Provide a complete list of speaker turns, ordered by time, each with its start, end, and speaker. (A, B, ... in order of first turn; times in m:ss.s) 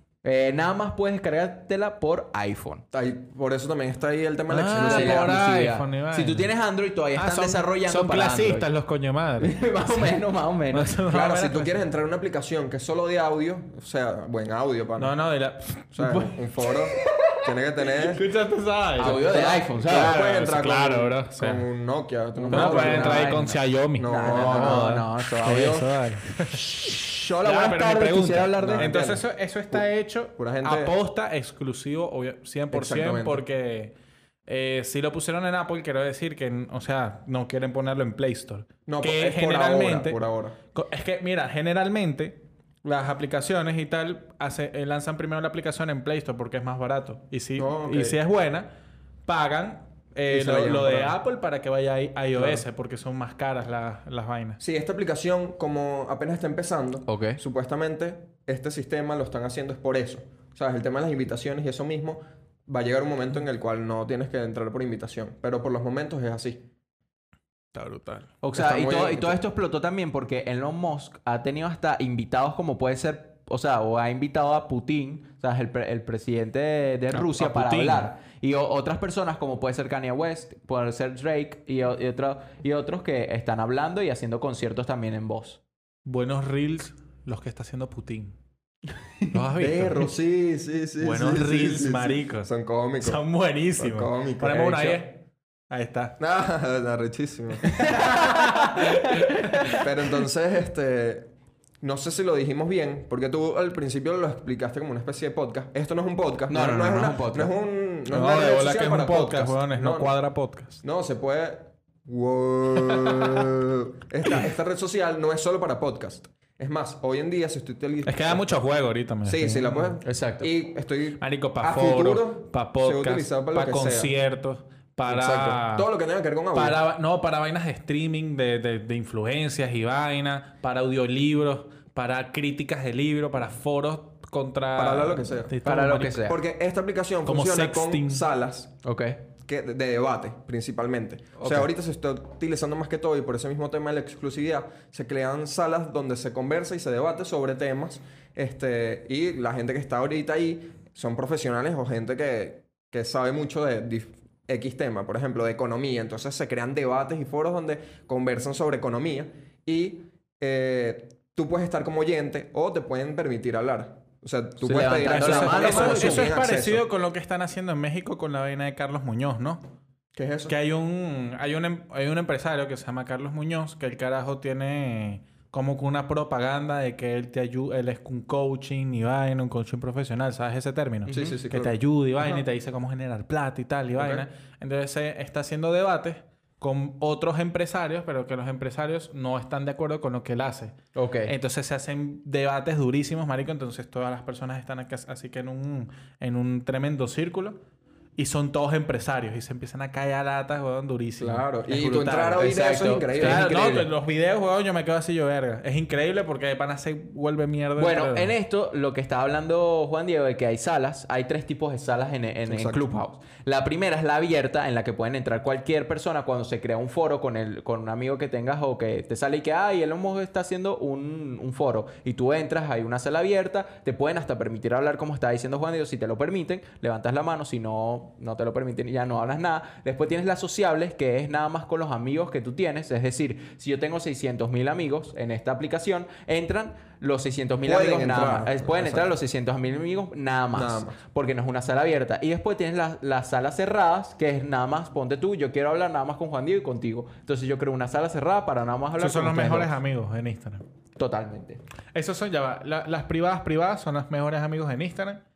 0:00.2-0:02.8 A
0:02.9-0:05.4 B
0:04.5-0:06.5 C
0:04.7-0:08.7 A
0:07.2-0:10.2 C
0:09.4-0:11.0 A
0:10.7-0:11.8 C
0:11.1-0:15.1 B
0:15.0-0:16.3 C
0:15.9-0:18.2 B
0:18.0-0:21.7 C
0:19.0-0:20.2 A
0:19.0-0:23.4 B
0:22.3-0:25.8 A
0:22.5-0:26.6 C
0:23.9-0:24.9 B
0:25.4-0:25.8 B
0:26.8-0:27.3 B
0:27.3-0:28.9 A
0:27.4-0:33.9 C
0:28.5-0:30.9 B
0:32.7-0:33.4 B
0:34.5-0:40.2 C
0:38.9-0:40.6 B
0:40.7-0:48.7 C
0:47.6-0:48.2 B
0:49.2-0:54.6 C
0:50.3-0:51.2 B
0:52.3-0:52.6 B
0:54.6-1:06.6 B
0:57.1-0:57.4 A
1:07.7-1:08.3 C
1:08.4-1:25.6 A
1:08.5-1:09.4 B
1:17.1-1:18.1 C
1:26.0-1:28.3 C
1:29.3-1:30.1 C
1:29.6-1:33.2 B
1:31.0-1:35.2 C
1:33.7-1:35.0 B
1:35.7-1:36.2 C
1:36.2-1:37.9 B
1:37.6-1:39.9 C
1:37.9-1:38.7 A
1:39.8-1:50.2 B
1:46.5-1:47.6 A
1:48.1-1:50.8 C
1:50.8-1:58.6 B
1:52.8-1:53.5 C
1:58.0-2:00.0 C
1:59.2-2:04.1 B
2:00.0-2:00.5 A
2:01.2-2:05.9 C
2:05.0-2:06.8 B
2:06.5-2:16.2 C
2:14.7-2:15.5 B
2:15.6-2:16.4 A
2:16.2-2:18.7 B
2:17.2-2:18.2 C
2:18.8-2:19.2 A
2:19.5-2:46.8 B
2:21.4-2:21.7 A
2:44.6-2:46.3 A
2:44.8-2:49.6 C
2:50.1-2:50.5 B
2:50.5-3:10.7 C
3:01.0-3:01.4 A
3:01.1-3:02.4 B
3:04.0-3:04.2 B
3:10.9-3:11.3 A
3:11.2-3:17.6 C
3:18.2-3:22.5 C
3:21.2-3:23.7 B
3:22.4-3:23.9 A
3:23.1-3:28.3 C
3:27.8-4:09.7 A
3:32.5-3:32.8 B
3:57.6-3:59.2 B
4:00.5-4:01.0 B
4:09.0-4:10.6 C
4:11.0-4:11.6 A
4:11.9-4:15.2 C